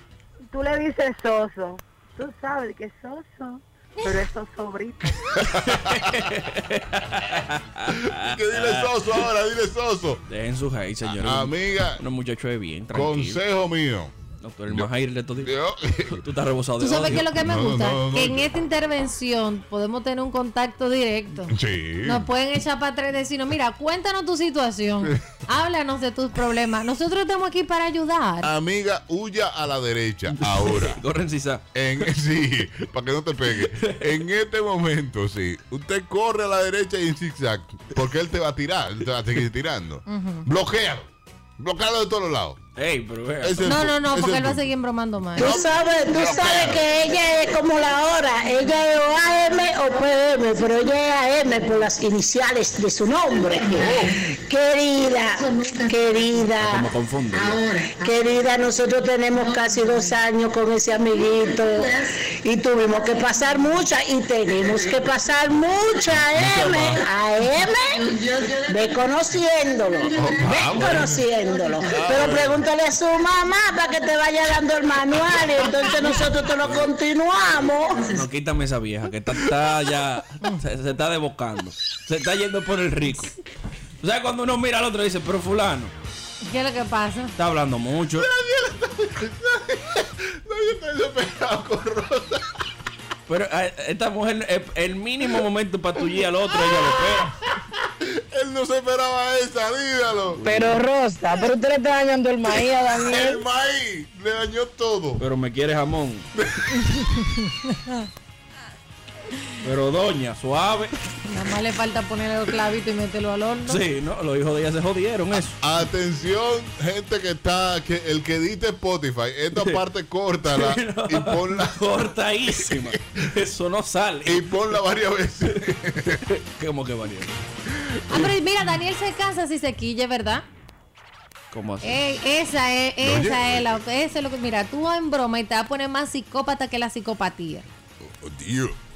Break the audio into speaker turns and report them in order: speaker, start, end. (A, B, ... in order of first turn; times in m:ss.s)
0:00.5-0:05.3 A
0:05.2-0:06.3 B
0:05.4-0:09.2 C
0:07.9-0:10.2 B
0:10.3-0:13.4 C
0:11.2-0:12.0 B
0:12.9-0:14.1 B
0:14.4-0:15.5 C
0:14.7-0:16.2 B
0:16.1-0:17.3 C
0:16.8-0:28.5 D
0:17.0-0:18.5 B
0:21.5-0:22.3 B
0:28.4-0:31.0 B
0:30.3-0:32.1 C
0:31.7-0:42.6 B
0:33.5-0:34.2 C
0:40.1-0:40.5 D
0:42.8-0:43.7 C
0:43.4-0:44.7 B
0:43.6-0:45.7 D
0:45.4-0:46.9 B
0:45.4-0:56.9 E
0:53.8-0:54.2 B
0:56.6-0:57.6 C
0:57.8-1:18.2 E
1:06.3-1:07.0 B
1:10.1-1:11.3 B
1:11.9-1:12.6 B
1:16.6-1:16.9 C
1:18.0-1:23.4 C
1:24.0-1:25.9 C
1:26.4-1:27.4 D
1:27.4-1:28.3 C
1:28.1-1:32.5 B
1:33.3-1:37.3 C
1:36.5-1:40.4 B
1:40.3-1:40.8 C
1:40.4-1:43.4 F
1:42.9-1:45.2 B
1:45.2-1:46.3 C
1:46.4-1:47.0 B
1:47.0-1:48.1 D
1:49.6-1:51.0 C
1:51.2-1:53.8 D
1:53.7-1:55.6 C
1:55.6-2:02.0 B
1:59.5-1:59.8 C
2:00.5-2:04.7 C
2:04.2-2:06.2 B
2:05.5-2:07.4 C
2:07.8-2:08.3 B
2:08.1-2:10.4 D
2:11.5-2:12.0 C
2:11.8-2:17.7 D
2:13.0-2:13.8 B
2:18.2-2:18.8 B